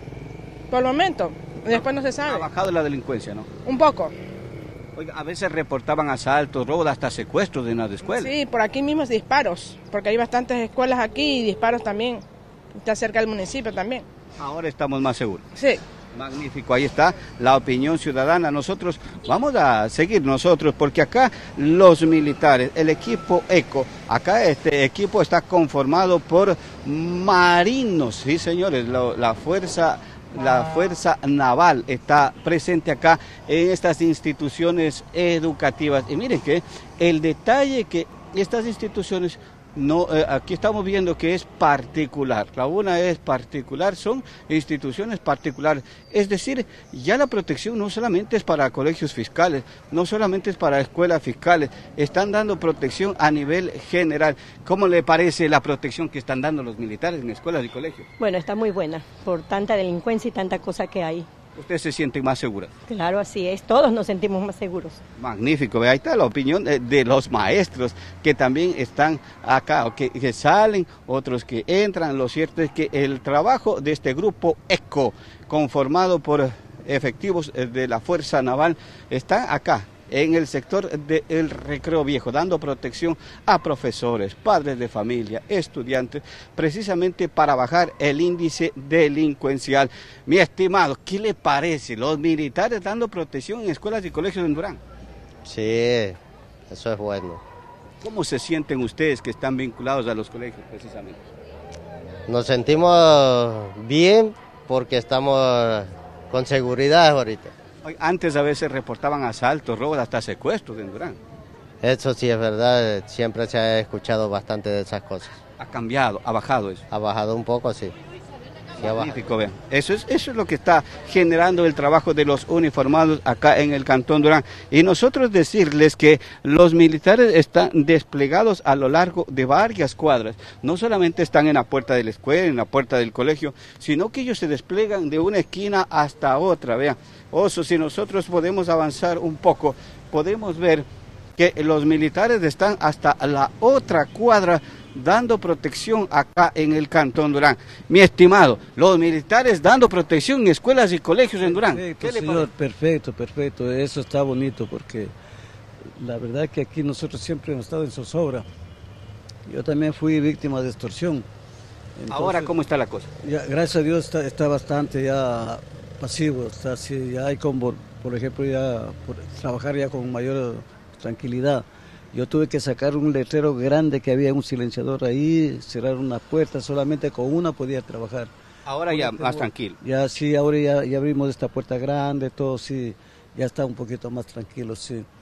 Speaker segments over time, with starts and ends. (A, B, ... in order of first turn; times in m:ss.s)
0:00.7-0:02.5 A
0:01.7-0:03.5 B
0:03.6-0:04.1 A
0:05.0-0:08.3 B
0:08.0-0:12.2 A
0:12.7-0:14.0 A
0:14.4-0:15.4 B
0:15.6-0:15.8 A
0:16.1-0:58.1 B
0:58.2-1:01.2 C
1:01.5-1:02.7 B
1:02.9-1:05.0 C
1:05.2-1:34.8 B
1:35.4-1:36.2 D
1:36.7-1:37.4 D
1:38.0-1:41.2 B
1:42.3-1:47.5 D
1:47.8-1:51.2 B
1:51.8-1:55.4 D
1:55.6-1:56.8 B
1:56.9-1:57.9 D
1:58.8-2:32.5 B
1:58.8-1:59.2 D
2:31.4-2:35.1 E
2:36.0-2:38.4 E
2:39.4-2:41.2 E
2:42.0-2:42.5 E
2:42.1-2:43.1 B
2:43.2-2:58.3 E
2:58.6-2:59.8 B
2:58.9-3:05.0 E